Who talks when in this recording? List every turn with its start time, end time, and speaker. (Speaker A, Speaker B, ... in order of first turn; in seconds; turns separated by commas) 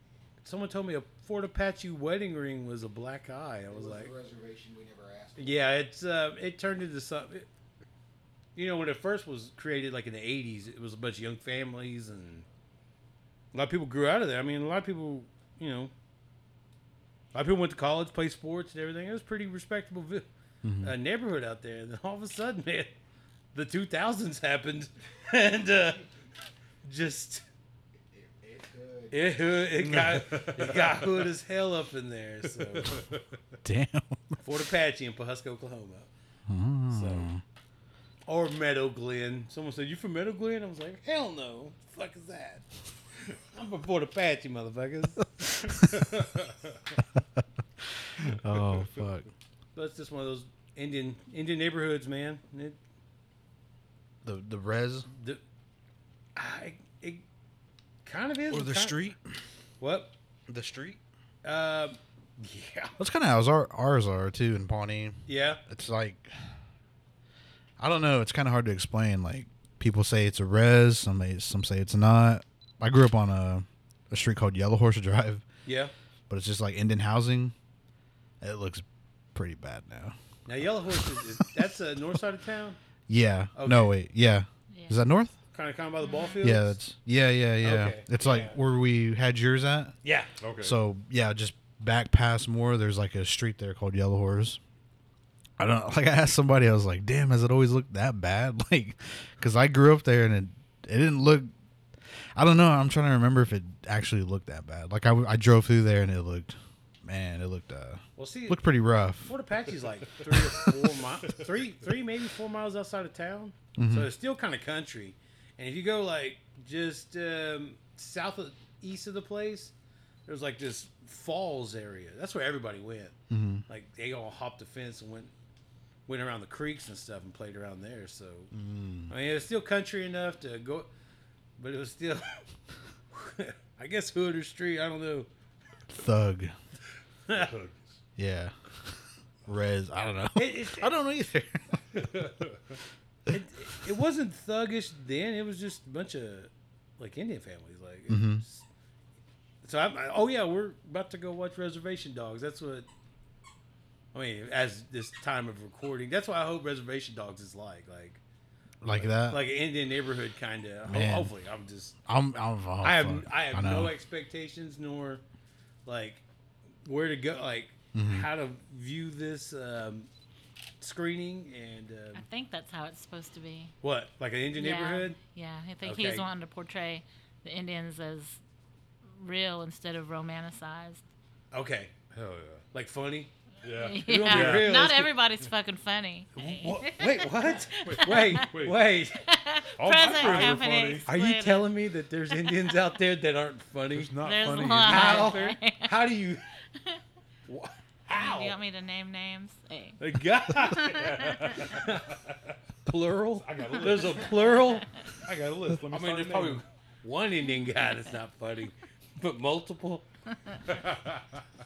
Speaker A: 0.4-4.1, Speaker B: 3.7-5.7, Speaker A: 5.4-7.5, Speaker A: 8.6-12.5, Speaker A: 13.5-15.9, Speaker A: 17.3-20.3, Speaker C: 20.6-20.9, Speaker A: 20.8-22.9, Speaker A: 23.5-26.1, Speaker A: 26.8-27.4, Speaker B: 28.1-29.6, Speaker A: 29.1-33.0, Speaker D: 29.8-31.3, Speaker D: 32.5-33.3, Speaker C: 33.6-34.4, Speaker A: 34.4-36.1, Speaker C: 36.5-37.4, Speaker A: 36.9-37.3, Speaker A: 38.3-42.6, Speaker A: 43.5-45.4, Speaker D: 45.8-46.8, Speaker C: 48.2-49.3, Speaker D: 48.2-49.1, Speaker A: 49.7-52.8, Speaker C: 54.2-55.1, Speaker A: 55.1-55.4, Speaker A: 56.4-57.2, Speaker A: 58.0-59.0, Speaker C: 58.5-59.2, Speaker A: 59.8-60.1, Speaker C: 60.5-61.0, Speaker A: 61.4-62.9, Speaker C: 63.0-66.3, Speaker A: 65.3-65.6, Speaker C: 67.8-75.4, Speaker A: 75.7-75.9, Speaker C: 76.3-77.5, Speaker C: 78.4-80.2, Speaker A: 80.5-82.8, Speaker C: 83.1-85.3, Speaker A: 83.6-83.9, Speaker E: 84.7-85.0, Speaker A: 85.5-86.8, Speaker E: 86.0-86.4, Speaker C: 86.4-90.0, Speaker A: 87.6-88.6, Speaker A: 90.0-90.3, Speaker D: 90.4-90.8, Speaker C: 90.6-94.6, Speaker C: 95.6-101.5, Speaker C: 102.4-109.3, Speaker A: 108.2-108.7, Speaker A: 109.2-119.7, Speaker D: 110.2-110.8, Speaker C: 113.8-114.1, Speaker A: 120.3-123.2, Speaker C: 123.3-123.7, Speaker A: 123.7-125.3, Speaker A: 126.1-128.5, Speaker C: 128.5-129.1, Speaker A: 129.1-130.9, Speaker A: 131.6-132.4, Speaker A: 133.1-135.3, Speaker C: 135.9-136.5, Speaker D: 137.3-138.0, Speaker C: 138.2-138.5, Speaker C: 139.5-141.7, Speaker A: 140.3-140.9, Speaker D: 141.9-142.8, Speaker A: 143.3-148.7, Speaker C: 148.1-148.4, Speaker A: 149.6-152.9, Speaker A: 154.1-158.2, Speaker C: 158.8-159.4, Speaker A: 158.9-162.0, Speaker C: 160.9-161.3, Speaker C: 162.1-163.9, Speaker A: 162.8-165.2, Speaker A: 165.8-166.2, Speaker A: 166.8-170.1, Speaker C: 167.9-168.3, Speaker A: 170.8-172.2, Speaker E: 172.2-173.7, Speaker A: 173.8-175.2, Speaker E: 174.5-178.4, Speaker A: 175.8-176.3, Speaker E: 179.2-181.0, Speaker A: 181.5-181.9, Speaker D: 182.1-182.7, Speaker A: 182.7-183.3, Speaker D: 183.6-184.9, Speaker E: 183.7-188.5, Speaker A: 184.0-185.2, Speaker D: 186.4-187.0, Speaker A: 186.8-189.2, Speaker D: 187.7-188.8, Speaker E: 189.2-191.7, Speaker D: 189.8-191.1, Speaker A: 190.2-194.2, Speaker E: 192.3-192.7, Speaker D: 193.9-195.6, Speaker E: 194.2-196.1, Speaker A: 194.8-196.4, Speaker A: 197.5-198.6, Speaker E: 198.1-200.0, Speaker A: 200.0-202.1, Speaker D: 200.7-202.6, Speaker E: 201.3-201.6, Speaker A: 202.8-204.9, Speaker D: 203.4-204.6, Speaker D: 205.2-206.6, Speaker A: 205.9-210.1, Speaker D: 210.7-211.4